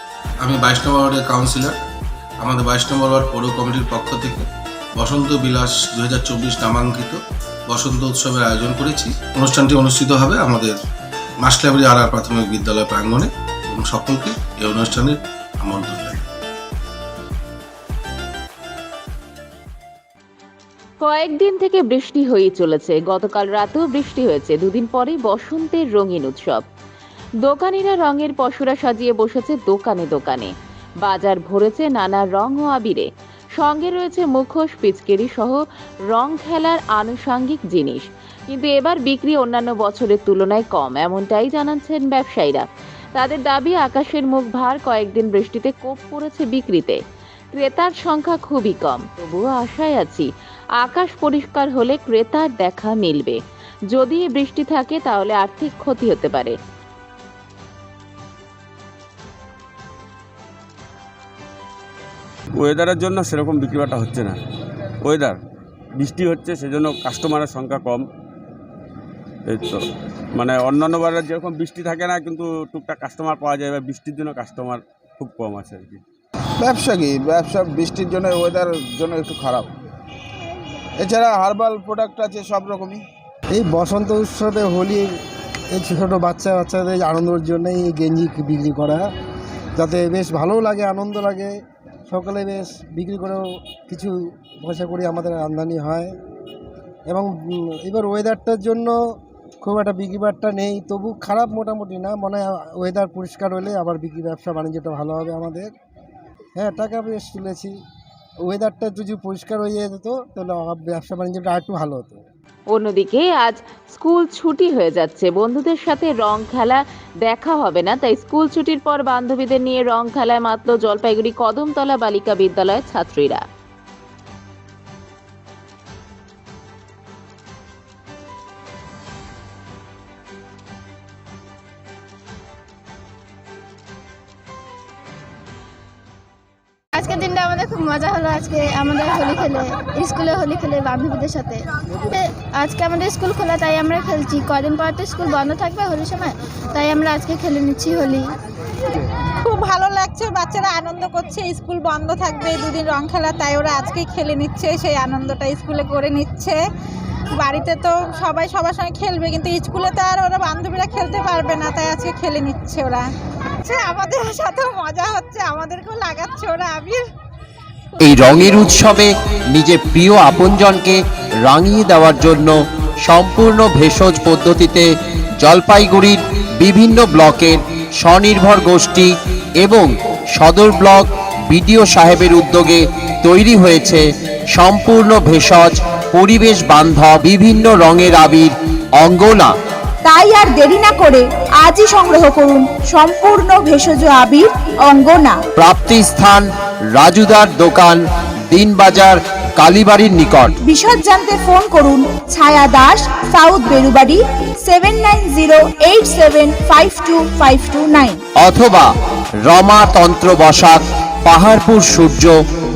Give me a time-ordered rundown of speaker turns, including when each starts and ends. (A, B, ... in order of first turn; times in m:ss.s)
0:00.4-0:01.8 A
0:02.4-0:10.8 A
0:11.4-0:16.2 A
0:21.0-0:26.6 B
0:27.4-0:30.5 B
0:31.0-0:42.6 B
0:43.2-0:47.0 B
0:47.5-0:50.3 B
0:50.8-0:53.4 B
0:53.9-0:56.6 B
1:02.6-1:04.4 C
1:05.0-1:05.4 C
1:06.0-1:08.1 C
1:09.5-1:16.0 C
1:16.6-1:19.7 D
1:21.0-1:23.0 D
1:23.5-1:25.1 E
1:25.7-1:29.0 E
1:29.8-1:31.5 E
1:32.1-1:36.1 E
1:37.1-1:38.9 E
1:39.6-1:45.7 E
1:46.6-1:47.7 E
1:48.5-1:52.2 E
1:52.7-2:03.4 B
2:16.9-2:28.3 F
2:29.4-2:36.6 G
2:37.4-2:43.0 G
2:43.6-2:47.0 G
2:48.0-3:09.5 H
3:10.0-3:15.4 I
3:15.6-3:20.6 H
3:20.6-3:28.2 I
3:28.4-3:28.9 H
3:29.4-3:32.4 H